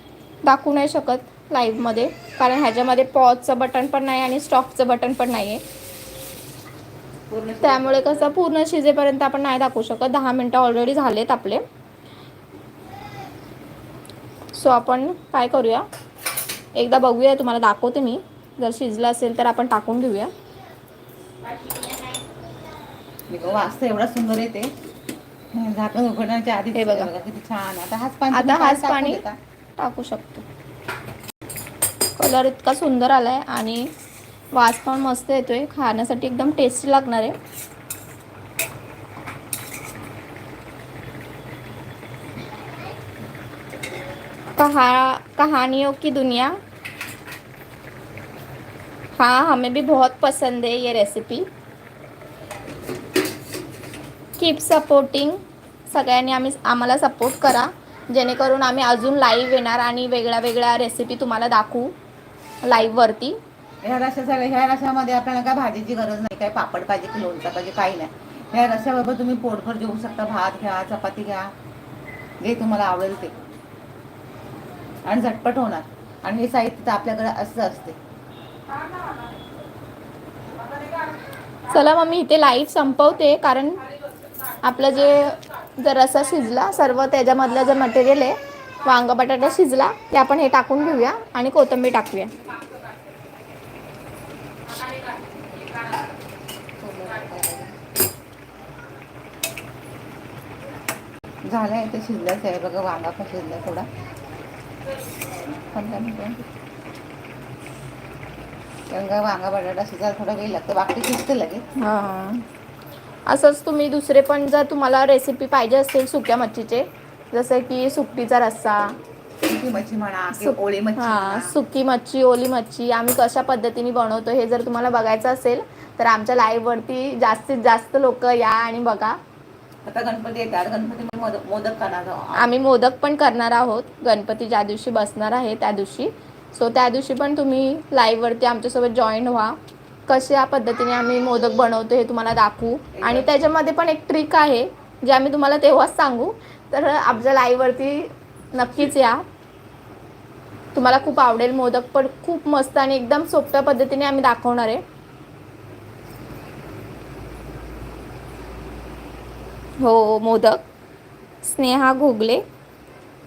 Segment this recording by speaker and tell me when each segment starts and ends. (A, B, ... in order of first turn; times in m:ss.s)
0:00.4-0:05.6 A
0:07.3-0:08.4 B
0:07.6-0:11.6 A
0:14.5-0:15.9 A
0:16.8-0:20.3 A
0:23.3-0:24.7 B
0:25.5-0:29.4 B
0:26.8-0:27.1 A
0:28.3-0:29.2 A
0:29.8-0:30.4 A
0:32.2-0:33.9 A
0:34.6-0:37.4 A
0:44.6-0:46.6 A
0:49.2-0:51.5 A
0:54.4-1:01.9 A
1:02.6-1:03.4 A
1:03.8-1:11.5 B
1:12.4-1:13.4 B
1:15.1-1:18.0 B
1:21.7-1:23.9 A
1:24.6-1:32.4 A
1:36.8-1:37.7 B
1:41.5-1:43.9 B
1:45.6-1:46.4 B
1:48.9-1:51.7 B
1:51.8-1:52.4 A
1:53.3-1:59.0 A
1:59.4-2:01.5 B
2:00.4-2:09.2 A
2:09.8-2:12.6 B
2:12.4-2:29.2 A
2:22.9-2:23.3 B
2:30.7-2:34.8 A
2:39.8-2:40.6 A
2:41.4-2:42.4 A